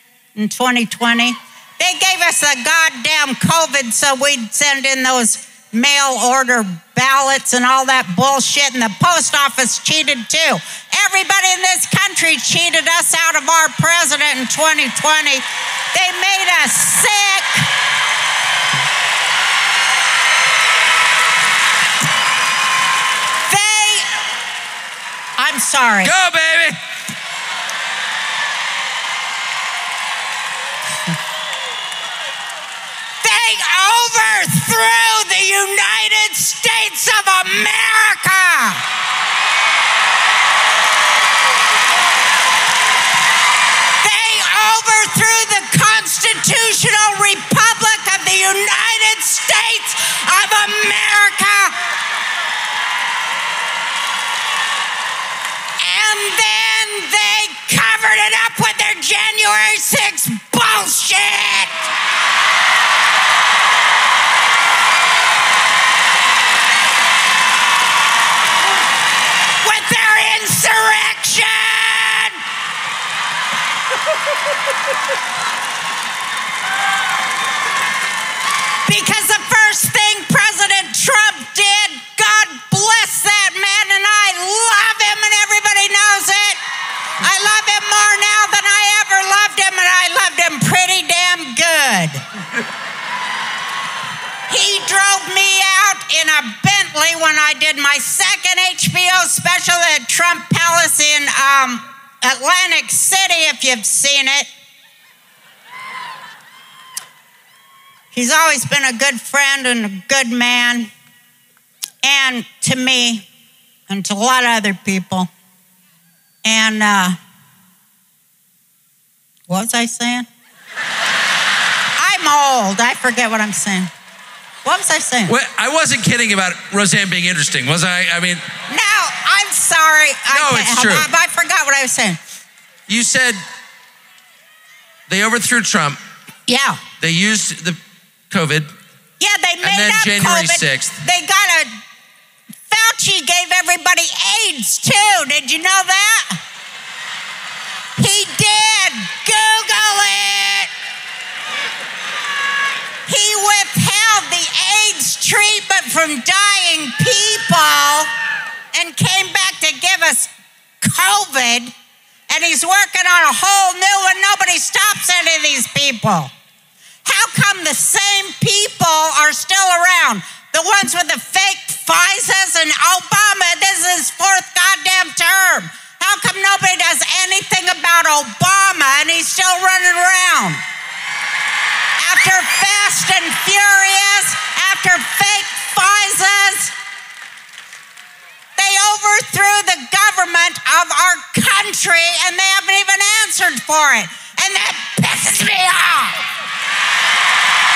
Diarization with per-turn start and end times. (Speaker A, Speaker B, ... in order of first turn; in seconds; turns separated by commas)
Speaker A: 0.3-17.7, Speaker A: 23.5-24.2, Speaker A: 25.4-26.1, Speaker B: 26.0-26.8, Speaker A: 33.2-38.8, Speaker A: 44.0-51.7, Speaker A: 55.8-61.9, Speaker A: 69.6-72.4, Speaker A: 78.8-86.6, Speaker A: 87.2-92.2, Speaker A: 94.5-104.5, Speaker A: 108.1-110.9, Speaker A: 112.0-113.3, Speaker A: 113.9-115.3, Speaker A: 116.4-117.2, Speaker A: 119.5-120.3, Speaker A: 122.0-123.9, Speaker A: 124.6-125.3, Speaker B: 125.3-128.4, Speaker A: 128.7-132.2, Speaker B: 130.3-131.1, Speaker B: 132.9-133.4, Speaker B: 135.1-136.0, Speaker A: 136.5-136.8, Speaker B: 137.0-137.8, Speaker B: 138.3-138.7, Speaker A: 139.2-141.7, Speaker B: 139.6-141.0, Speaker A: 142.7-146.4, Speaker A: 148.0-150.7, Speaker A: 153.1-158.1, Speaker A: 158.7-161.7, Speaker A: 162.3-166.3, Speaker A: 167.0-180.6, Speaker A: 182.0-186.7, Speaker A: 188.6-196.3